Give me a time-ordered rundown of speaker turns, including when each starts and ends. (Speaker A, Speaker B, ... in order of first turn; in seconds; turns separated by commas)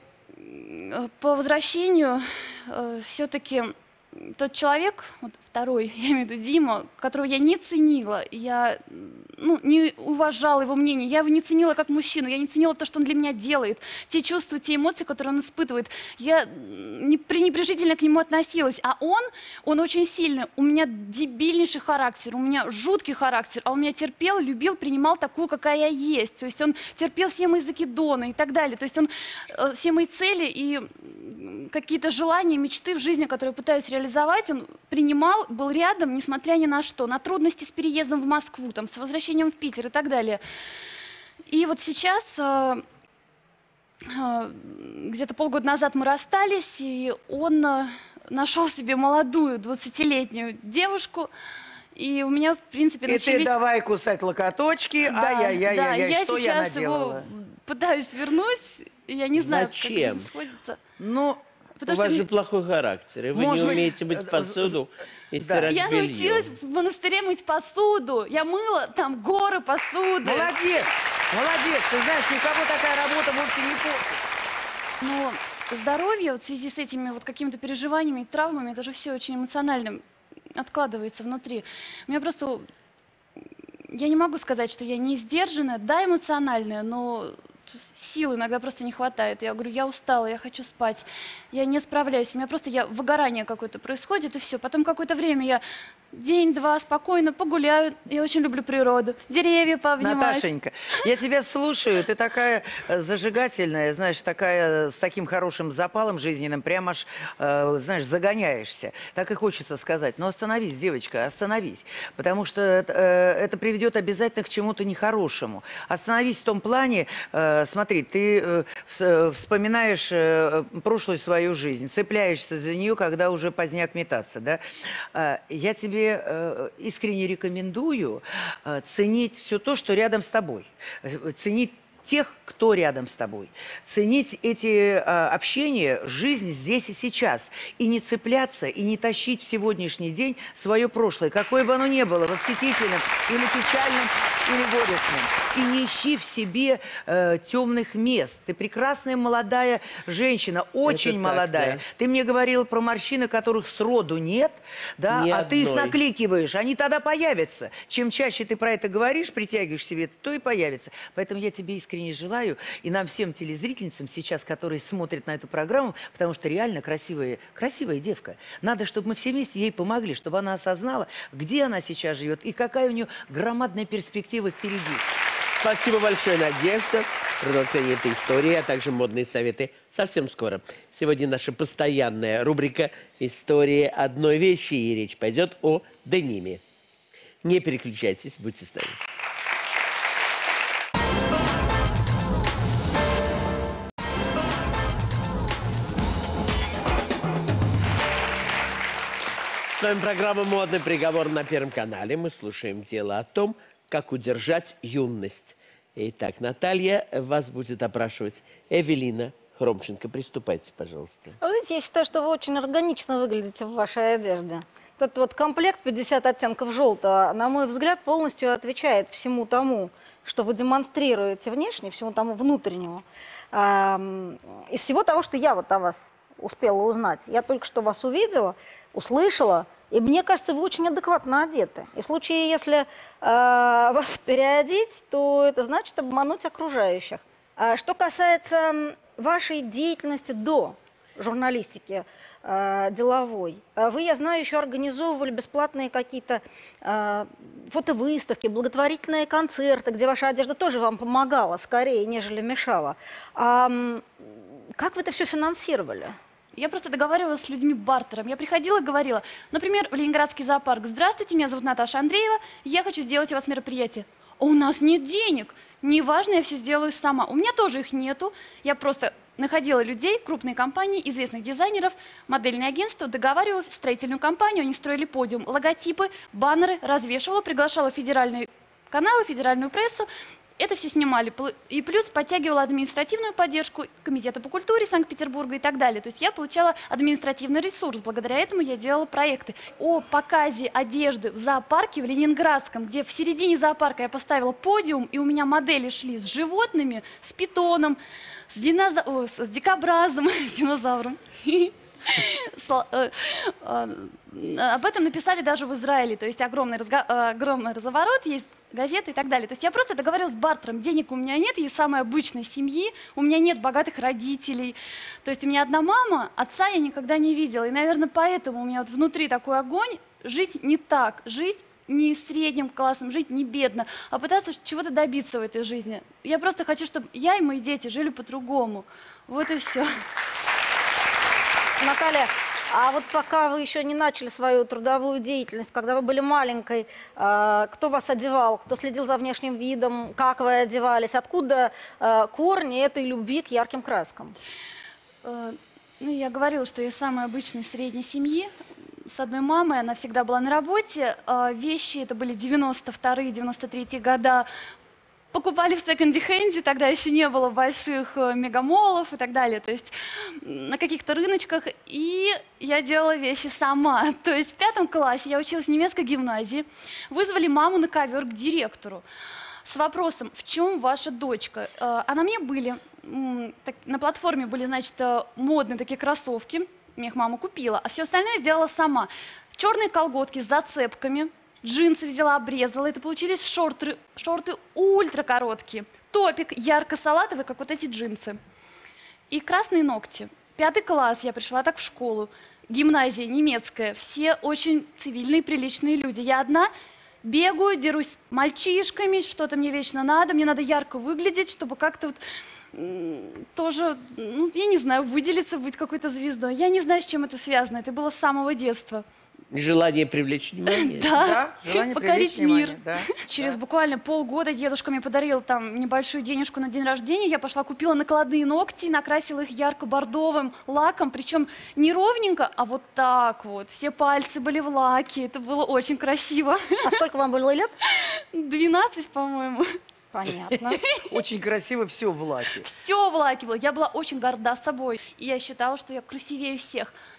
Speaker A: 0.4-40.4, Speaker A: 41.5-42.8, Speaker A: 44.0-51.3, Speaker A: 52.0-53.5, Speaker B: 53.1-57.2, Speaker A: 55.0-60.8, Speaker C: 59.4-60.3, Speaker B: 61.0-61.4, Speaker A: 61.8-62.2, Speaker C: 61.9-66.5, Speaker B: 63.3-64.8, Speaker B: 65.4-65.7, Speaker A: 65.7-70.5, Speaker B: 70.2-74.2, Speaker A: 75.0-80.0, Speaker A: 80.6-82.7, Speaker A: 83.9-100.5, Speaker B: 100.0-124.6, Speaker B: 125.1-175.1, Speaker C: 150.8-151.8, Speaker C: 155.1-156.0, Speaker C: 175.6-186.6, Speaker C: 187.4-189.0, Speaker C: 199.7-211.4, Speaker D: 211.4-254.2, Speaker D: 254.8-256.2, Speaker A: 256.6-280.1, Speaker A: 280.6-298.0, Speaker A: 298.5-329.9, Speaker D: 331.8-344.4, Speaker A: 345.2-348.5, Speaker A: 349.1-354.5, Speaker A: 355.3-369.1, Speaker A: 369.6-388.4, Speaker A: 389.3-396.7, Speaker A: 397.2-402.2, Speaker A: 402.7-409.0, Speaker C: 409.5-411.1, Speaker A: 410.7-426.9, Speaker B: 411.1-413.6, Speaker D: 426.8-427.7, Speaker A: 428.3-429.7, Speaker D: 430.1-430.8, Speaker A: 430.8-431.1, Speaker B: 431.1-432.6, Speaker A: 432.6-436.9